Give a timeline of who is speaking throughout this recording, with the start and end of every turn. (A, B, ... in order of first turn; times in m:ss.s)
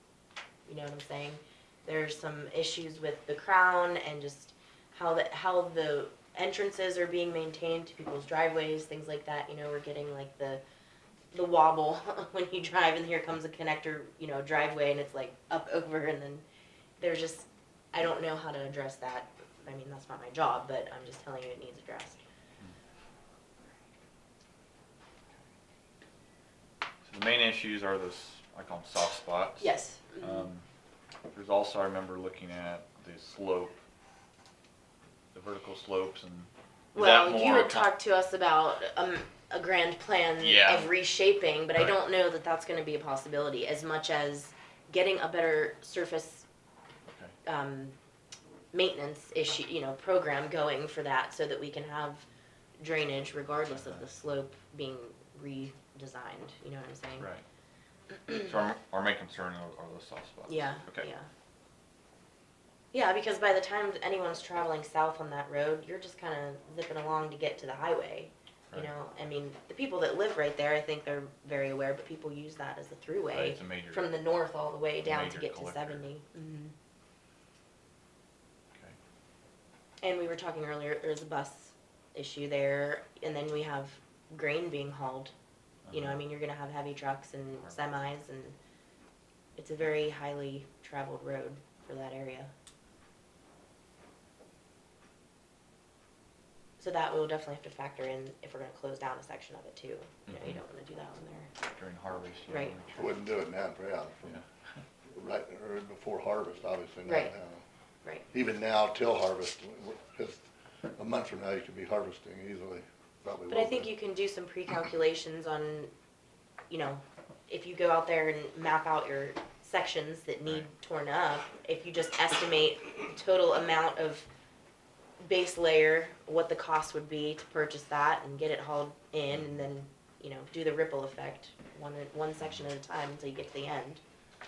0:00.7-0:10.6 A
0:11.3-0:16.4 A
0:17.0-0:22.2 A
0:27.0-0:30.6 B
0:29.6-0:30.5 A
0:31.3-0:33.8 B
0:35.3-0:37.9 B
0:36.9-0:46.5 A
0:40.4-0:40.9 B
0:47.1-0:47.4 B
0:47.4-0:48.0 A
0:48.7-0:52.2 A
0:52.8-0:57.3 A
0:53.7-0:54.0 B
0:57.2-0:57.4 B
0:58.3-1:01.1 B
1:00.5-1:01.3 A
1:02.9-1:16.7 A
1:13.3-1:14.1 B
1:15.0-1:16.0 B
1:20.0-1:25.3 A
1:25.9-1:26.2 B
1:25.9-1:28.6 A
1:29.6-1:32.5 A
1:36.8-1:41.5 A
1:40.3-1:40.6 B
1:41.6-1:43.2 B
1:42.5-1:42.8 A
1:43.0-1:44.4 C
1:44.2-1:44.8 B
1:45.1-1:47.6 C
1:47.1-1:47.3 A
1:48.3-1:53.9 C
1:53.5-1:55.9 A
1:56.7-2:04.3 A
2:05.2-2:14.0 A